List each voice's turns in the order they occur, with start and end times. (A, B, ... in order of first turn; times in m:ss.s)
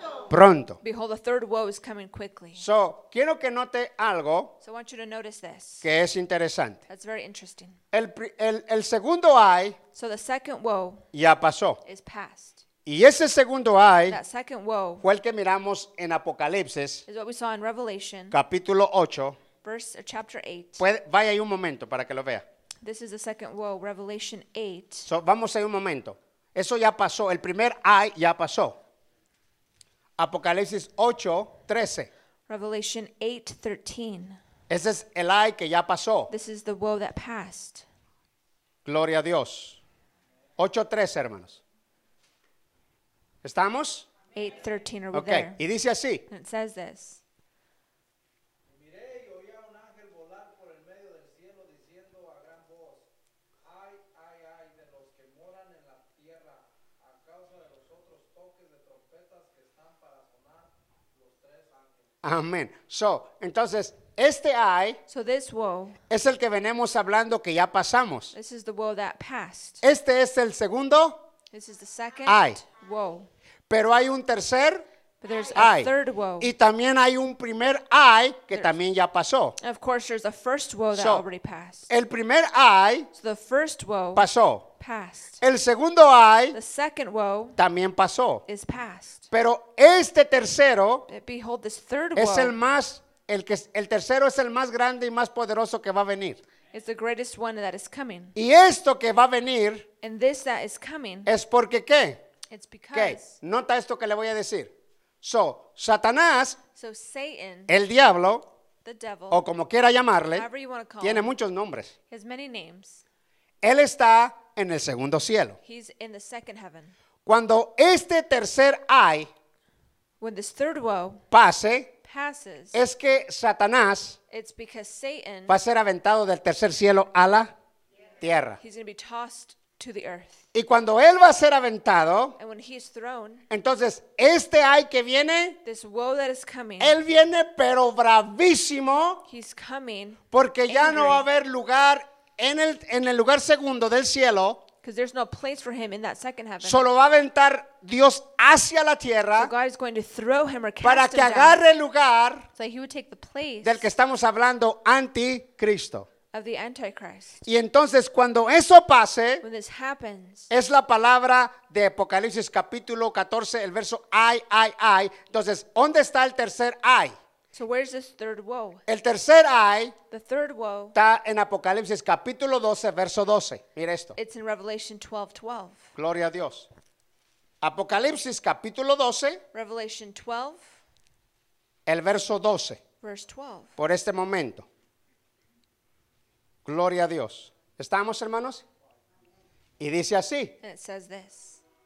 0:00.3-0:00.8 A
0:00.8-0:02.6 B
0:02.6-0:04.6 A
0:04.6-0:05.9 B
0:05.8-0:06.8 A
0:06.9-0:07.8 B
0:07.9-0:09.8 A
0:09.9-0:11.0 B
0:11.1-0:11.8 A
0:11.8-0:12.6 B
0:12.8-0:14.2 A
0:14.1-0:15.0 B
0:15.0-0:17.0 A
0:17.1-0:18.4 B
0:18.3-0:19.4 A
0:19.6-0:20.8 B
0:20.8-0:22.4 A
0:22.8-0:25.1 B
0:25.0-0:28.8 A
0:30.2-0:32.1 A
0:32.5-0:34.4 B
0:34.7-0:36.3 A
0:36.3-0:37.8 B
0:38.8-0:39.8 A
0:40.6-0:41.6 A
0:43.4-0:44.1 A
0:44.3-0:45.6 B
0:45.1-0:46.2 A
0:46.3-0:47.2 B
0:48.6-0:53.1 C
0:53.6-1:02.1 C
1:02.2-1:05.0 A
1:05.1-1:06.0 B
1:06.1-1:08.3 A
1:08.3-1:09.8 B
1:09.8-1:11.2 A
1:11.5-1:13.3 B
1:12.2-1:12.6 A
1:13.7-1:14.8 A
1:15.2-1:16.5 B
1:15.5-1:19.6 A
1:19.6-1:21.9 B
1:20.9-1:21.2 A
1:21.9-1:23.1 A
1:23.1-1:25.4 B
1:24.2-1:24.6 A
1:25.4-1:26.6 A
1:26.5-1:27.6 B
1:27.6-1:28.4 A
1:28.5-1:29.3 B
1:29.3-1:31.1 A
1:31.1-1:32.6 B
1:32.2-1:36.4 A
1:36.7-1:38.4 B
1:38.4-1:39.9 A
1:40.0-1:41.3 B
1:41.2-1:42.2 A
1:42.5-1:43.4 B
1:42.9-1:46.6 A
1:46.8-1:47.7 B
1:47.7-1:48.5 A
1:48.8-1:49.4 B
1:49.3-1:50.5 A
1:50.3-1:51.3 B
1:51.0-1:51.9 A
1:52.1-1:53.0 B
1:53.6-1:55.6 A
1:55.6-1:56.9 B
1:57.2-1:59.3 A
2:00.2-2:01.2 B
2:01.3-2:01.9 A
2:02.0-2:02.8 B
2:02.7-2:04.2 A
2:04.3-2:05.6 B
2:05.5-2:07.5 A
2:08.2-2:08.6 A
2:08.6-2:10.4 B
2:10.5-2:12.4 A
2:12.4-2:13.5 B
2:13.5-2:15.6 A
2:15.6-2:17.0 B
2:16.8-2:19.2 A
2:19.2-2:21.2 B
2:20.3-2:24.6 A
2:24.8-2:26.8 B
2:26.6-2:29.5 A
2:29.4-2:31.6 B
2:30.8-2:32.5 A
2:32.6-2:33.9 B
2:33.6-2:36.1 A
2:36.3-2:37.4 B
2:37.4-2:39.4 A
2:39.4-2:40.5 B
2:40.5-2:47.2 A
2:47.5-2:48.8 B
2:48.9-2:49.9 A
2:50.1-2:51.0 B
2:50.9-2:54.2 A
2:54.1-2:55.9 B
2:56.0-2:56.7 A
2:57.6-2:59.4 A
2:59.5-3:00.7 B
3:01.8-3:02.8 A
3:03.0-3:03.8 B
3:03.8-3:04.7 A
3:06.6-3:08.6 A
3:09.8-3:10.6 A
3:10.6-3:11.6 B